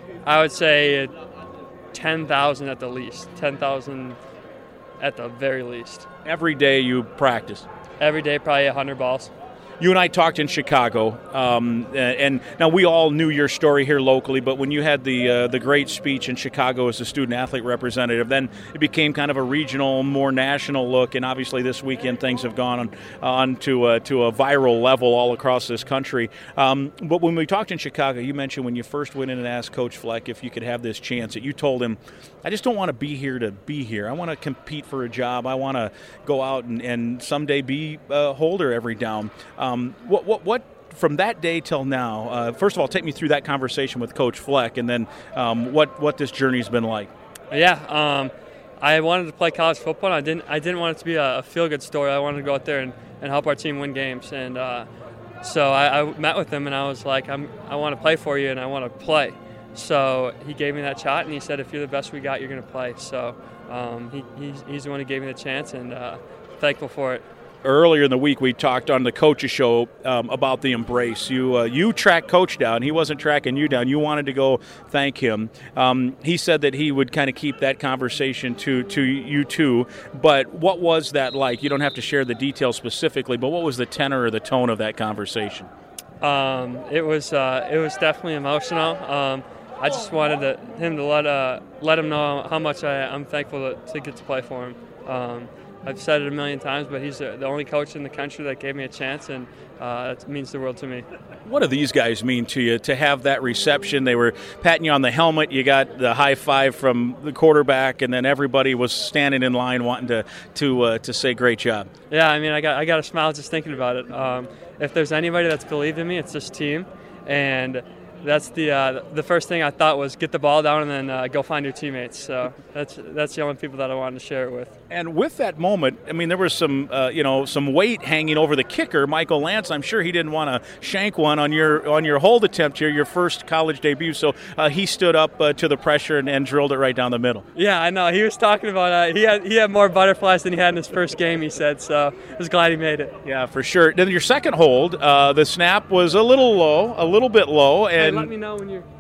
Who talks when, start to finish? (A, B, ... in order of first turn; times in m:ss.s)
0:00.2-0:01.1 A
0:01.9-0:04.2 A
0:05.0-0:06.1 A
0:06.2-0:07.7 B
0:08.0-0:09.3 A
0:09.8-0:47.1 B
0:47.5-0:54.9 A
0:55.4-1:07.2 A
1:07.6-1:25.7 B
1:26.2-1:41.0 A
1:41.4-1:51.9 B
1:52.1-2:04.7 A
2:04.9-2:17.5 B
2:17.6-2:23.1 A
2:23.2-2:28.3 B
2:28.0-2:28.9 A